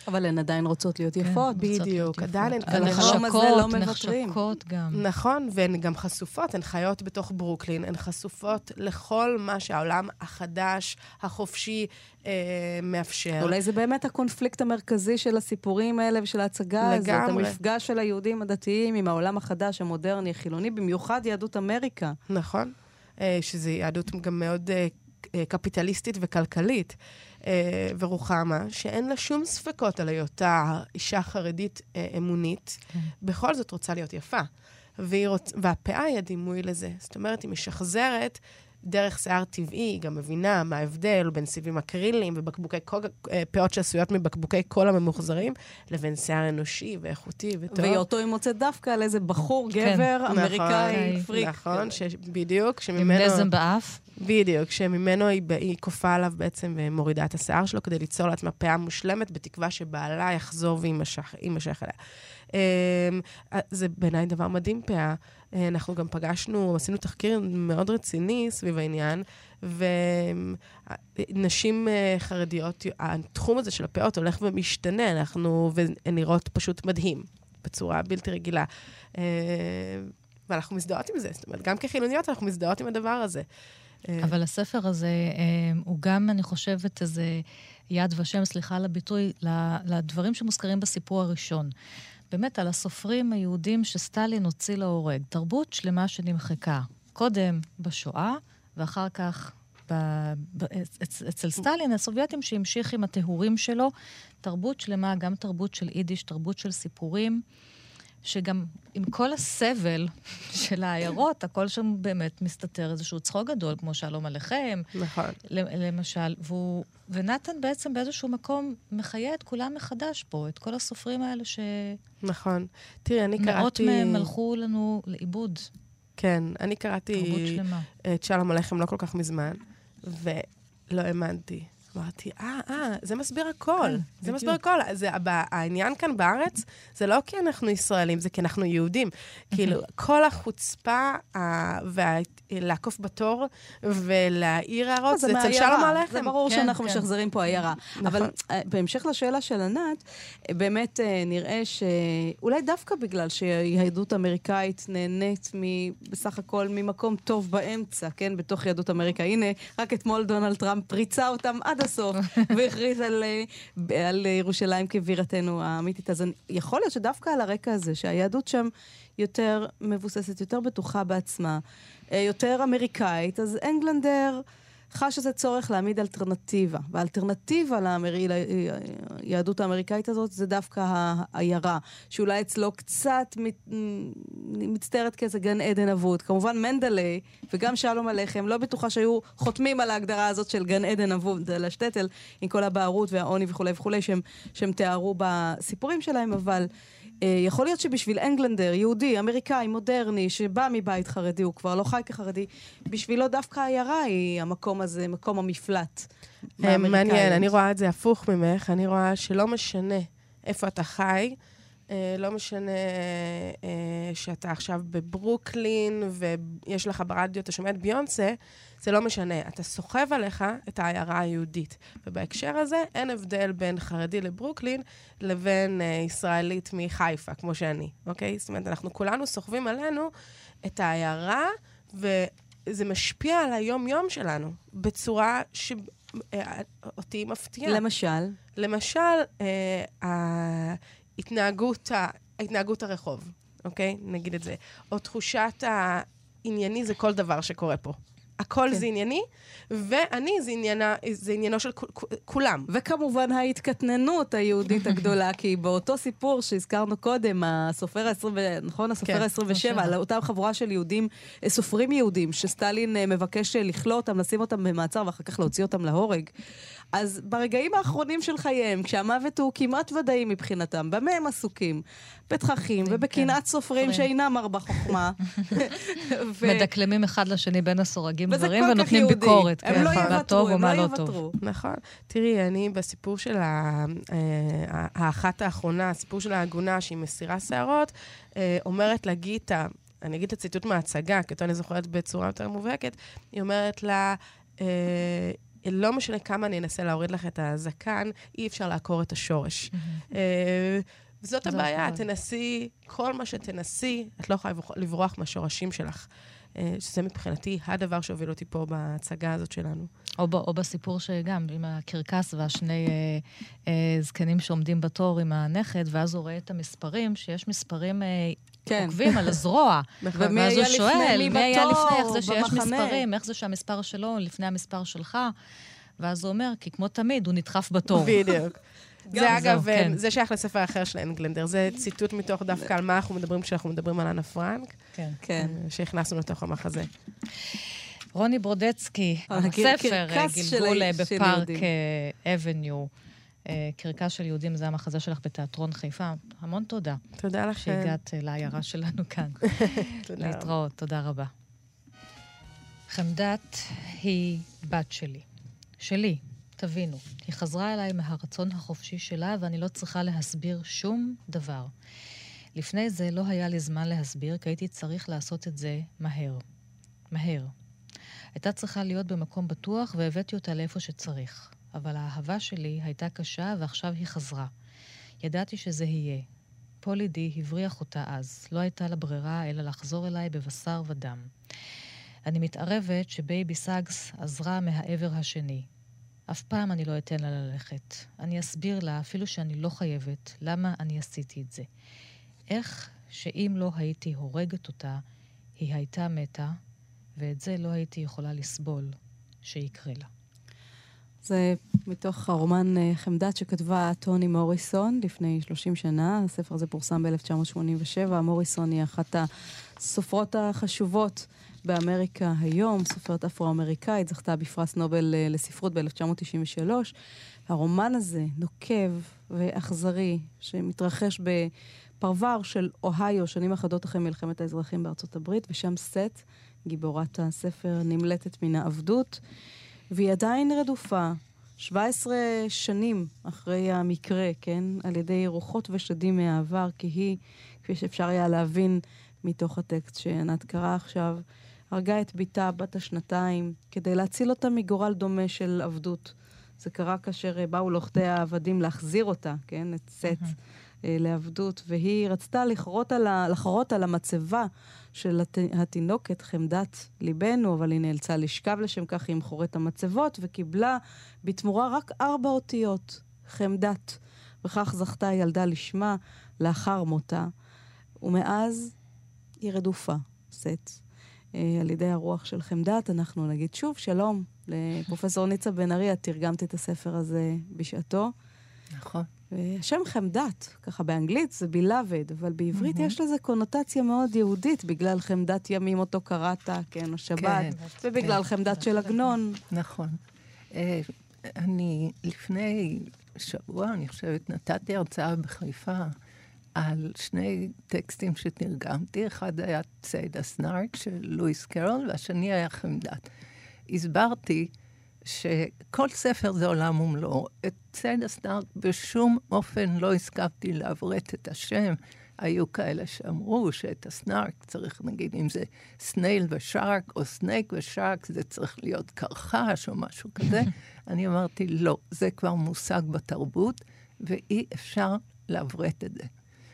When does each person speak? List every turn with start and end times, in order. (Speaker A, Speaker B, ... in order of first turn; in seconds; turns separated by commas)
Speaker A: 0.1-1.6, Speaker B: 1.2-5.0, Speaker C: 1.6-3.3, Speaker A: 2.7-4.4, Speaker C: 4.9-13.6, Speaker A: 13.4-22.2, Speaker C: 16.8-17.6, Speaker C: 22.3-48.1, Speaker A: 47.7-51.9, Speaker B: 49.8-50.1, Speaker C: 50.3-53.5, Speaker B: 50.9-51.2, Speaker B: 53.0-54.0, Speaker C: 54.2-62.0, Speaker C: 62.5-83.5, Speaker C: 84.1-84.3, Speaker B: 84.2-91.7, Speaker B: 92.3-103.9, Speaker B: 104.4-107.4, Speaker B: 108.2-114.9, Speaker C: 114.9-115.4, Speaker B: 115.5-122.0, Speaker C: 122.2-124.3, Speaker B: 123.4-125.7, Speaker C: 126.2-146.4, Speaker B: 127.2-127.9, Speaker B: 133.8-134.6, Speaker A: 145.1-196.7, Speaker B: 146.5-147.1, Speaker C: 148.0-148.3, Speaker A: 197.2-206.1, Speaker A: 206.6-207.5, Speaker C: 206.6-211.4, Speaker C: 211.9-230.1, Speaker C: 230.6-237.8, Speaker A: 237.7-238.4, Speaker C: 238.6-252.7, Speaker A: 252.7-266.3, Speaker C: 259.0-259.3, Speaker B: 259.5-259.9, Speaker A: 266.9-276.7, Speaker B: 272.8-274.1, Speaker B: 276.4-281.2, Speaker A: 278.3-281.4, Speaker C: 279.7-280.2, Speaker C: 281.4-309.9, Speaker B: 299.7-300.0, Speaker B: 301.4-302.1, Speaker B: 310.2-325.3, Speaker A: 318.7-319.3, Speaker C: 320.0-320.4, Speaker A: 320.1-323.0, Speaker B: 326.0-328.2, Speaker C: 327.9-336.9, Speaker B: 329.1-330.0, Speaker A: 329.1-329.6, Speaker B: 334.9-335.2, Speaker A: 335.2-335.6, Speaker B: 338.1-342.9, Speaker A: 339.3-341.7, Speaker B: 343.5-347.0, Speaker C: 347.2-348.0, Speaker B: 347.6-351.3, Speaker C: 349.4-350.5, Speaker B: 352.9-355.2, Speaker B: 355.8-361.7, Speaker B: 362.6-366.4, Speaker B: 367.1-367.5, Speaker B: 368.4-374.5, Speaker B: 375.2-376.3, Speaker B: 376.8-381.3, Speaker B: 382.3-385.7, Speaker B: 386.3-391.7, Speaker B: 392.5-395.0, Speaker B: 395.6-396.6, Speaker B: 397.2-400.1, Speaker A: 401.2-409.3, Speaker A: 409.8-416.9, Speaker A: 417.5-429.2, Speaker A: 429.9-450.3, Speaker B: 450.1-450.3, Speaker A: 450.9-467.3, Speaker A: 468.0-468.7, Speaker A: 469.4-470.8, Speaker A: 471.4-478.1, Speaker D: 478.7-479.1, Speaker A: 479.3-489.4, Speaker D: 487.2-488.2, Speaker B: 487.6-489.1, Speaker D: 489.5-490.0, Speaker D: 490.5-495.9, Speaker D: 496.6-503.1, Speaker D: 503.7-504.5, Speaker D: 505.0-526.1